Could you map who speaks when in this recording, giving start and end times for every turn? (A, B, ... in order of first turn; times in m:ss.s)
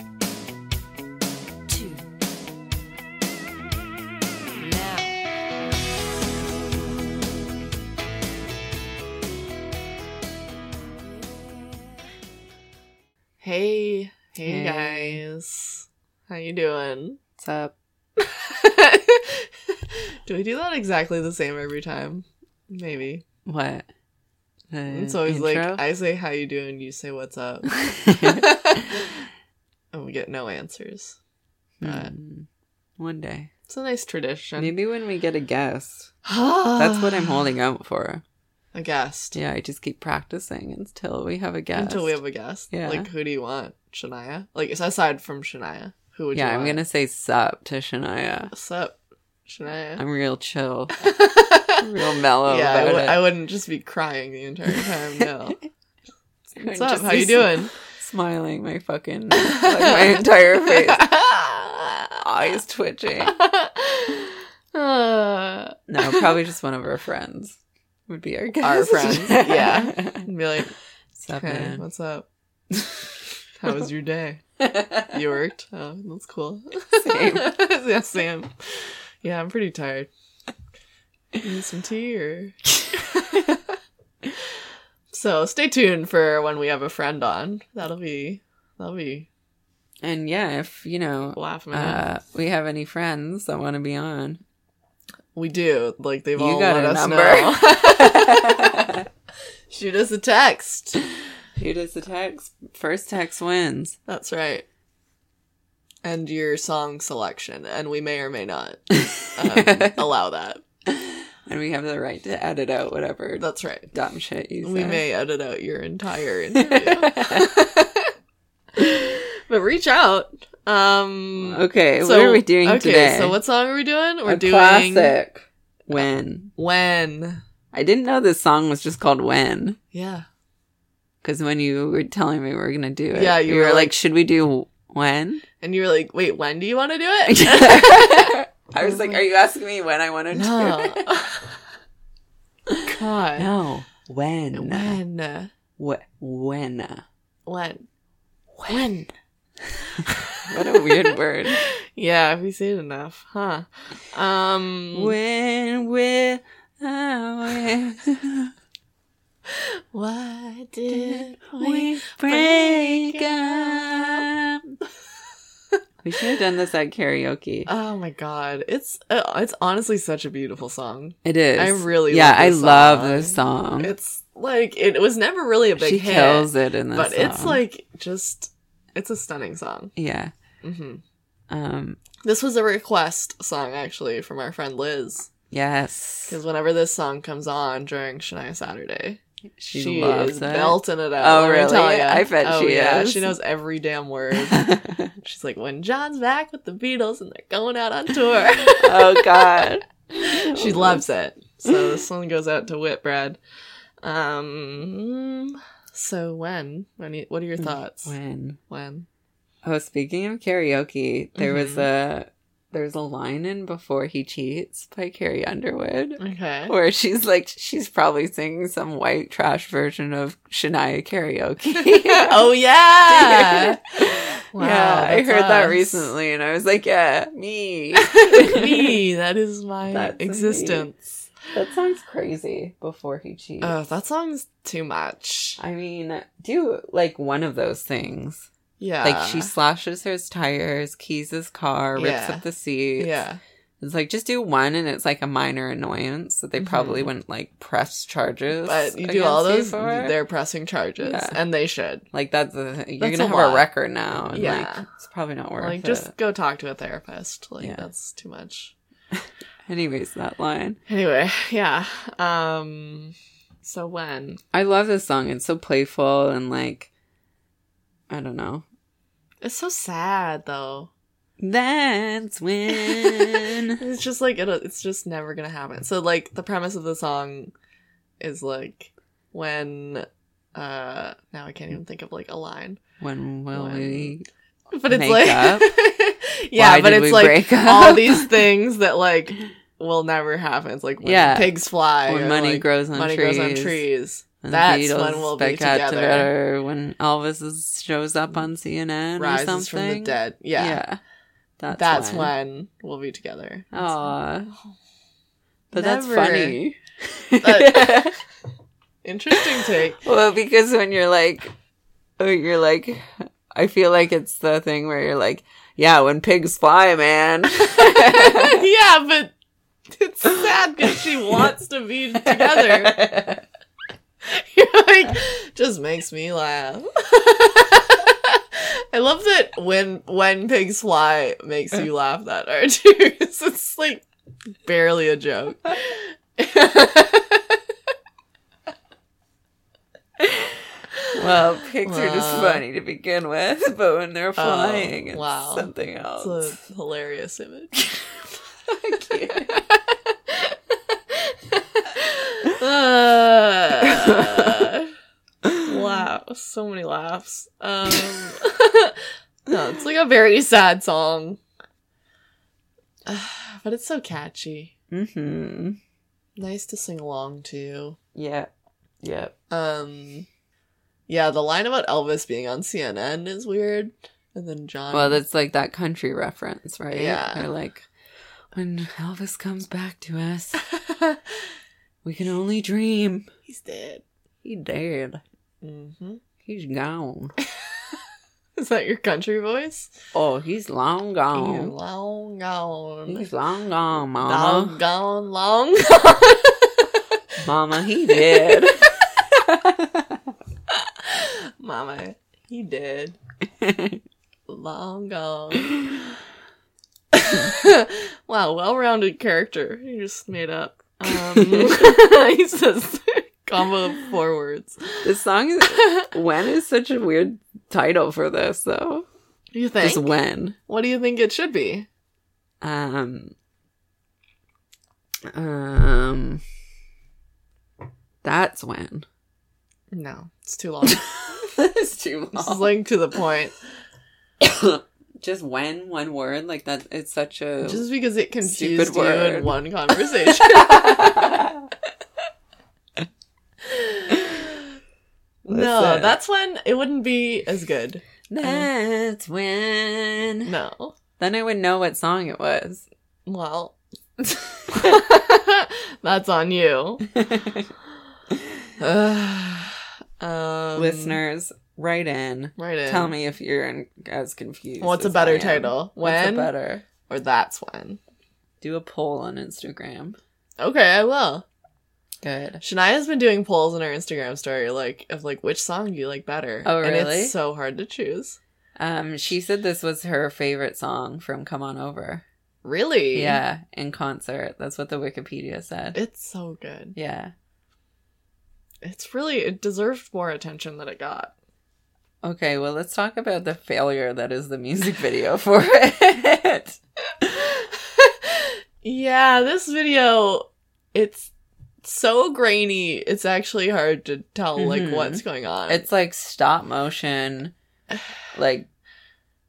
0:13.4-0:17.2 A
0:14.4-0:15.2 B
0:17.4-0:17.7 B
0:18.2-0:23.2 A
0:23.4-0:23.9 B
0:24.7-0:25.8 B
0:24.9-0:29.1 A
0:27.8-0:29.0 B
0:29.9-0:31.2 A
0:31.8-0:33.5 B
0:31.8-0:32.1 A
0:33.7-0:34.7 A
0:34.6-0:36.1 B
0:36.2-0:37.5 A
0:36.8-0:38.2 B
0:38.8-0:39.4 A
0:39.4-0:42.2 B
0:41.7-0:46.8 A
0:42.7-0:43.1 B
0:46.3-0:48.5 B
0:48.5-0:50.0 A
0:50.0-0:51.0 B
0:51.0-0:51.8 A
0:51.8-0:53.2 B
0:52.5-0:55.6 A
0:56.6-0:57.7 A
0:56.6-1:01.1 B
0:59.5-1:02.2 A
1:02.2-1:03.4 B
1:03.2-1:06.3 A
1:05.9-1:10.3 B
1:08.6-1:10.8 A
1:11.2-1:11.8 B
1:11.3-1:12.3 A
1:13.6-1:14.4 A
1:14.6-1:15.2 B
1:15.1-1:18.5 A
1:17.0-1:17.6 B
1:19.2-1:20.1 A
1:21.4-1:23.7 A
1:25.1-1:29.3 A
1:30.0-1:34.4 B
1:31.4-1:32.1 A
1:35.4-1:38.6 A
1:36.4-1:39.1 B
1:39.7-1:41.0 A
1:41.6-1:44.0 B
1:44.1-1:44.7 A
1:46.0-1:50.6 A
1:49.0-1:50.0 B
1:50.9-1:55.0 B
1:53.4-1:53.9 A
1:54.6-1:58.1 A
1:56.6-1:57.6 B
1:58.8-2:05.2 A
2:01.5-2:03.4 B
2:04.2-2:06.5 B
2:06.6-2:07.4 A
2:07.7-2:09.8 B
2:09.9-2:10.3 A
2:11.2-2:15.4 B
2:13.1-2:13.9 A
2:15.6-2:19.2 A
2:17.3-2:21.2 B
2:20.3-2:21.5 A
2:22.7-2:25.0 B
2:22.9-2:23.5 A
2:24.5-2:25.5 A
2:25.8-2:27.0 B
2:27.5-2:27.8 A
2:28.6-2:29.1 A
2:30.0-2:30.9 A
2:30.5-2:31.6 B
2:31.5-2:35.2 A
2:34.9-2:38.5 B
2:39.5-2:44.2 A
2:40.9-2:44.8 B
2:46.0-2:47.7 B
2:47.7-2:59.9 A
2:51.2-2:53.9 B
2:55.8-2:57.6 B
3:00.0-3:00.3 B
3:00.6-3:01.0 A
3:01.5-3:02.0 B
3:02.2-3:05.3 A
3:05.5-3:06.4 B
3:06.3-3:09.2 A
3:09.6-3:13.3 B
3:09.7-3:19.5 A
3:14.5-3:15.1 B
3:18.8-3:21.0 B
3:20.1-3:23.4 A
3:24.0-3:28.2 A
3:27.6-3:28.6 B
3:28.7-3:29.1 A
3:29.6-3:42.5 B
3:31.4-3:31.9 A
3:36.2-3:36.7 A
3:41.8-3:43.8 A
3:43.1-3:49.0 B
3:44.5-3:46.1 A
3:48.0-3:51.0 A
3:49.9-3:50.9 B
3:51.5-3:53.8 B
3:53.6-3:55.6 A
3:55.6-3:58.5 B
3:58.8-3:59.5 A
3:59.0-4:03.1 B
4:02.0-4:02.4 A
4:03.0-4:03.4 A
4:03.8-4:10.2 B
4:06.6-4:07.1 A
4:08.6-4:12.0 A
4:11.0-4:11.4 B
4:12.1-4:16.1 B
4:13.0-4:13.7 A
4:14.3-4:14.9 A
4:15.6-4:18.8 A
4:17.6-4:17.9 B
4:19.7-4:20.8 B
4:20.9-4:24.4 A
4:24.5-4:26.9 B
4:28.1-4:28.6 B
4:29.4-4:30.9 A
4:31.4-4:33.8 B
4:32.9-4:37.5 A
4:38.2-4:42.8 A
4:43.0-4:44.3 B
4:43.5-4:44.1 A
4:44.7-4:56.3 A
4:44.9-4:45.7 B
4:46.6-4:48.4 B
4:51.0-4:53.8 B
4:54.4-5:01.0 B
4:59.2-5:00.8 A
5:01.6-5:02.3 B
5:01.7-5:03.9 A
5:03.7-5:04.5 B
5:05.7-5:08.2 B
5:05.7-5:06.6 A
5:07.4-5:08.1 A
5:09.0-5:10.0 A
5:09.4-5:11.5 B
5:12.2-5:18.7 B
5:17.8-5:19.3 A
5:19.9-5:23.0 A
5:22.2-5:23.4 B
5:24.3-5:34.0 A
5:34.7-5:37.6 A
5:41.1-5:46.6 B
5:41.8-5:42.6 A
5:44.4-5:47.9 A
5:48.8-5:49.6 B
5:49.5-5:54.9 A
5:53.9-5:54.7 B
5:55.6-6:01.4 A
6:03.1-6:04.7 A
6:04.9-6:05.8 B
6:06.4-6:08.0 A
6:08.2-6:08.5 B
6:09.0-6:09.3 B
6:09.5-6:10.3 A
6:11.1-6:15.2 A
6:14.9-6:17.9 B
6:16.9-6:17.5 A
6:18.5-6:20.6 B
6:20.8-6:21.2 A
6:22.0-6:23.3 B
6:23.5-6:24.0 A
6:24.4-6:25.2 B
6:25.6-6:26.2 A
6:26.4-6:27.3 B
6:28.6-6:29.9 A
6:30.1-6:31.7 B
6:31.3-6:33.3 A
6:33.1-6:34.8 B
6:34.2-6:36.9 A
6:37.4-6:40.3 B
6:38.1-6:38.6 A
6:40.7-6:43.2 A
6:43.6-6:44.0 B
6:44.5-6:45.8 A
6:47.3-6:55.1 A
6:51.4-6:52.0 B
6:55.0-6:59.1 B
6:55.7-6:56.1 A
6:59.5-7:00.1 A
6:59.8-7:00.6 B
7:00.7-7:01.9 A
7:02.6-7:03.3 B
7:05.3-7:06.4 B
7:08.2-7:09.1 B
7:09.9-7:11.1 A
7:10.9-7:12.7 B
7:12.4-7:13.6 A
7:14.4-7:17.9 B
7:17.6-7:21.3 A
7:18.4-7:21.7 B
7:23.7-7:24.5 A
7:25.5-7:28.7 A
7:25.5-7:26.2 B
7:28.3-7:30.5 B
7:30.4-7:31.0 A
7:31.2-7:32.8 B
7:33.3-7:33.8 A
7:34.7-7:37.1 A
7:37.2-7:37.7 B
7:38.8-7:41.2 A
7:40.8-7:46.8 B
7:42.6-7:43.1 A
7:44.8-7:46.5 A
7:47.1-7:48.0 A
7:48.6-7:50.2 B
7:50.6-7:51.4 A
7:52.2-7:52.6 B
7:52.6-7:58.4 A
7:56.6-7:57.4 B
7:58.8-8:02.2 B
8:02.6-8:03.4 A
8:03.1-8:06.0 B
8:05.9-8:07.0 A
8:07.0-8:07.3 B
8:08.8-8:11.3 A
8:12.2-8:17.5 B
8:17.6-8:21.3 A
8:21.8-8:25.9 A
8:24.6-8:27.5 B
8:28.4-8:28.7 B